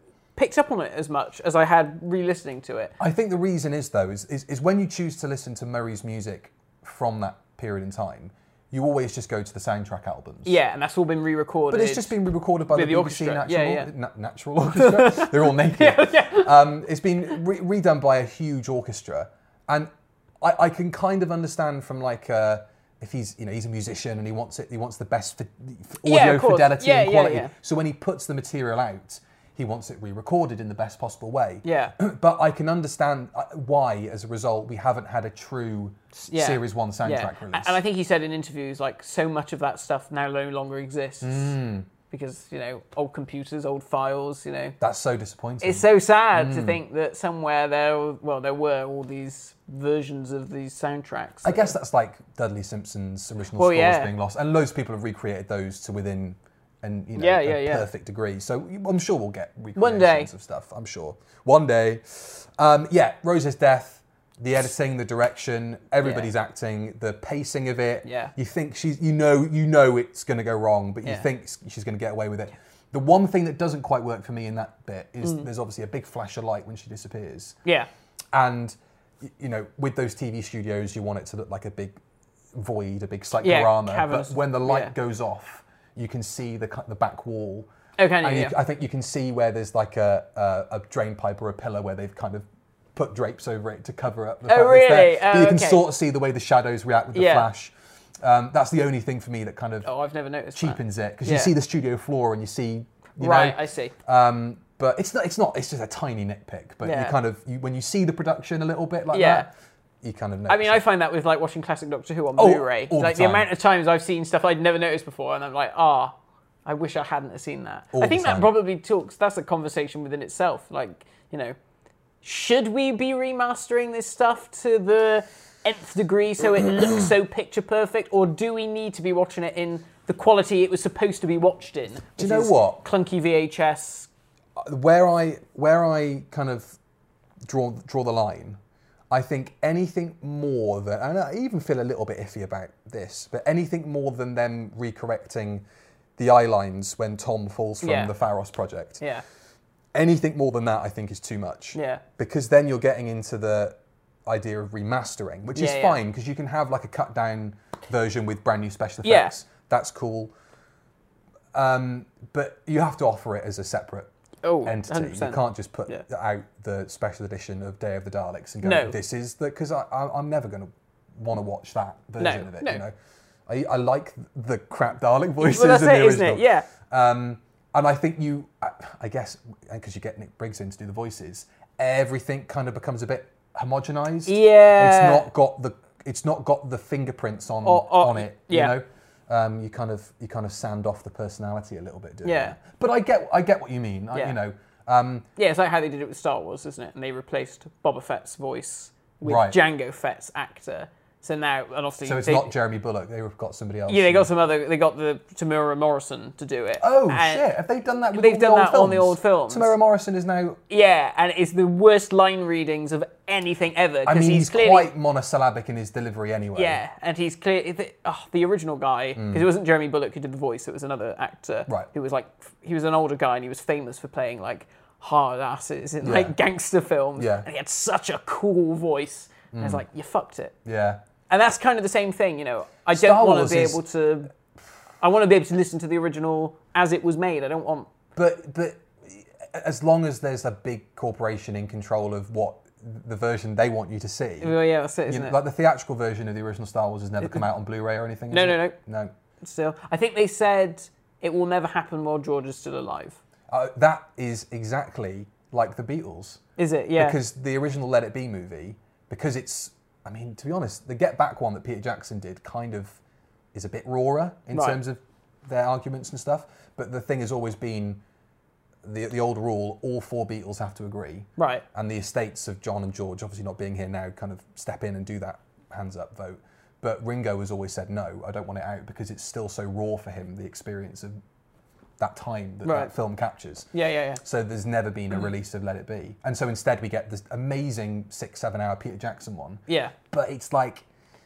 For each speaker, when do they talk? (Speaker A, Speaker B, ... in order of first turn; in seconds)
Speaker A: 0.4-2.9, 10.4-12.2, 12.7-13.9, 14.7-16.7, 26.0-27.5, 31.6-31.9, 36.2-41.6, 42.1-44.8, 45.6-51.7, 53.5-54.1, 57.2-57.9, 59.8-60.3, 66.0-66.3, 68.0-68.3, 83.4-84.9, 88.0-88.6, 94.5-95.8, 97.1-97.5, 99.8-101.5, 103.2-103.9, 106.8-107.2, 109.1-109.5, 110.5-121.6, 122.2-134.1, 147.8-148.1, 151.7-152.0, 155.6-156.0, 159.0-159.3, 164.4-166.0, 168.6-168.9, 172.2-172.8, 175.4-176.7, 184.3-185.3, 187.6-188.8, 192.2-192.6, 195.4-202.5, 203.9-207.5, 208.1-209.7, 210.7-214.9, 216.6-230.6, 231.3-234.3, 235.0-237.9, 244.4-245.4, 248.3-248.8, 249.4-253.2, 256.6-257.2, 264.5-264.8, 271.4-271.6, 282.6-282.9, 283.7-284.2, 289.7-289.9
Speaker B: 3.0-10.6, 11.7-37.8, 41.2-41.9, 44.8-46.8, 51.4-77.6, 78.3-82.0, 82.5-87.7, 88.2-99.9, 100.5-109.5, 110.0-110.8, 112.4-113.5, 117.9-118.5, 132.2-132.8, 134.6-136.8, 137.4-138.6, 139.1-145.7, 146.2-149.0, 149.9-160.3, 161.5-164.1, 164.7-172.9, 173.5-195.3, 199.2-199.6, 202.0-204.3, 206.8-210.6, 214.1-216.8, 219.2-219.5, 226.0-226.4, 227.2-227.5, 229.5-229.8, 230.7-231.0, 232.9-233.8, 238.2-244.6, 245.1-249.1, 253.5-256.4, 257.0-263.0, 263.5-268.0, 268.8-281.2, 282.0-283.7, 284.2-290.9